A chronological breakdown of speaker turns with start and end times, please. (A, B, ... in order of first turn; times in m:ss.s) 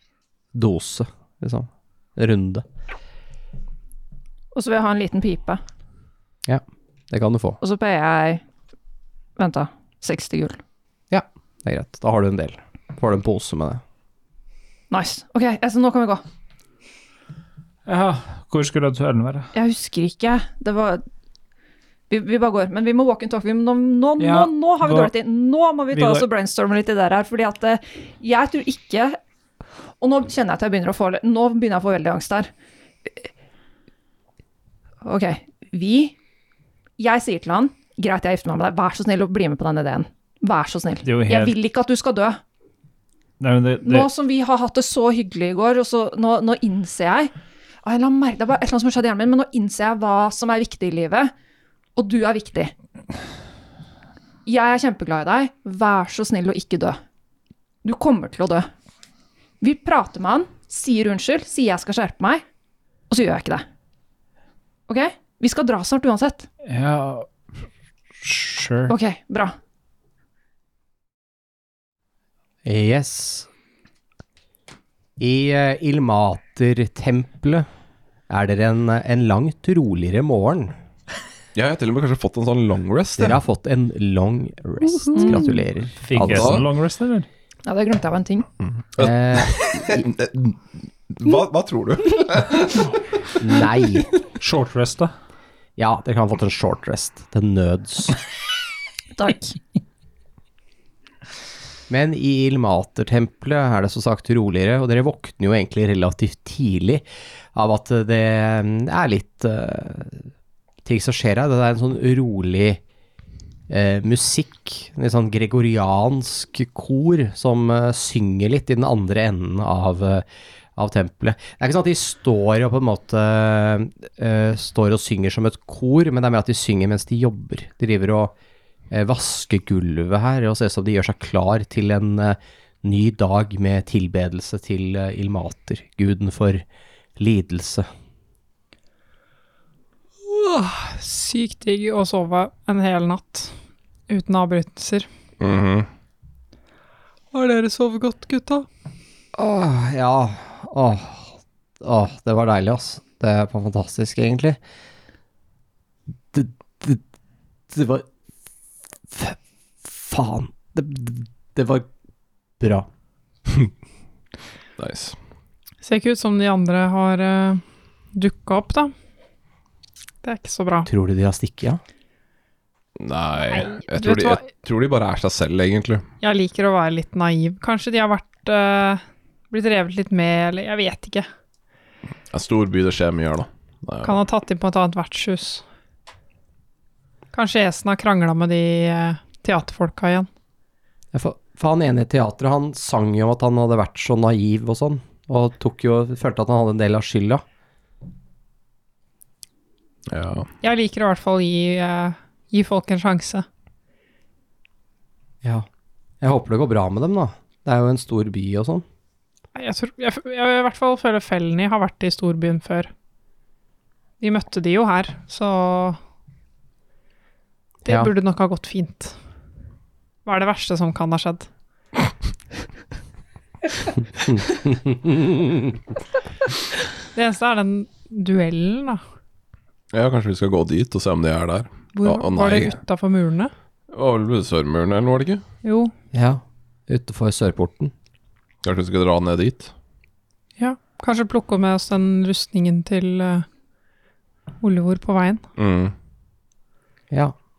0:00.5-0:02.6 A
0:04.5-0:05.6 B
0:06.4-0:07.6 A
0:07.6-0:08.4 B
0:09.4-0:10.6 B
0:11.1-0:13.8 A
0:14.9-0:16.2 B
0:17.8-0:19.5 C
0:19.5-0:21.0 B
0:22.1-0:29.2 B
0:24.2-0:25.1 C
0:25.9-0:26.2 C
0:30.0-0:32.5 B
0:35.0-0:36.1 B
0:37.0-0:42.4 B
0:41.0-0:41.5 C
0:43.4-0:44.1 C
0:43.8-0:47.3 B
0:47.8-0:51.3 B
0:52.0-0:52.7 B
0:54.4-0:57.0 B
0:57.8-0:58.7 B
0:59.6-1:02.4 B
1:03.1-1:03.6 B
1:04.9-1:06.5 B
1:06.6-1:07.3 C
1:08.2-1:08.9 C
1:08.9-1:09.5 B
1:12.6-1:13.5 A
1:15.2-1:17.6 A
1:18.3-1:20.7 A
1:21.5-1:23.4 D
1:23.2-1:26.6 A
1:25.1-1:25.6 B
1:26.0-1:27.3 C
1:26.2-1:26.6 D
1:27.6-1:28.5 B
1:28.8-1:33.0 D
1:29.0-1:30.0 A
1:33.4-1:34.1 A
1:34.4-1:35.1 C
1:35.8-1:38.2 A
1:39.2-1:39.6 B
1:41.9-1:50.3 A
1:50.8-1:52.8 A
1:53.7-2:08.3 A
2:08.9-2:16.6 A
2:17.2-2:17.9 A
2:20.2-2:23.5 E
2:24.1-2:25.1 E
2:25.4-2:25.9 D
2:27.3-2:28.6 E
2:29.4-2:34.6 A
2:36.3-2:37.0 A
2:37.7-2:38.1 A
2:39.1-2:41.9 A
2:42.6-2:42.9 A
2:44.8-2:45.2 D
2:45.8-2:47.6 E
2:48.1-2:48.9 E
2:50.2-2:50.9 E
2:50.9-2:51.8 A
2:53.0-2:56.0 D
2:53.5-2:54.5 E
2:56.2-3:01.3 E
3:02.3-3:04.2 D
3:04.0-3:05.6 E
3:07.3-3:10.3 E
3:11.1-3:17.4 A
3:20.1-3:20.5 D
3:20.6-3:23.4 E
3:26.2-3:28.8 A
3:29.5-3:32.9 E
3:34.2-3:36.0 E
3:37.8-3:39.2 E
3:40.2-3:41.5 E
3:44.3-3:45.8 A
3:47.1-3:49.0 E
3:49.9-3:52.8 D
3:51.9-3:53.5 E
3:53.9-3:55.4 D
3:55.6-3:55.9 E
3:56.1-3:57.9 A
3:58.6-3:59.7 D
4:00.6-4:03.4 E
4:04.6-4:05.4 E
4:05.6-4:05.9 D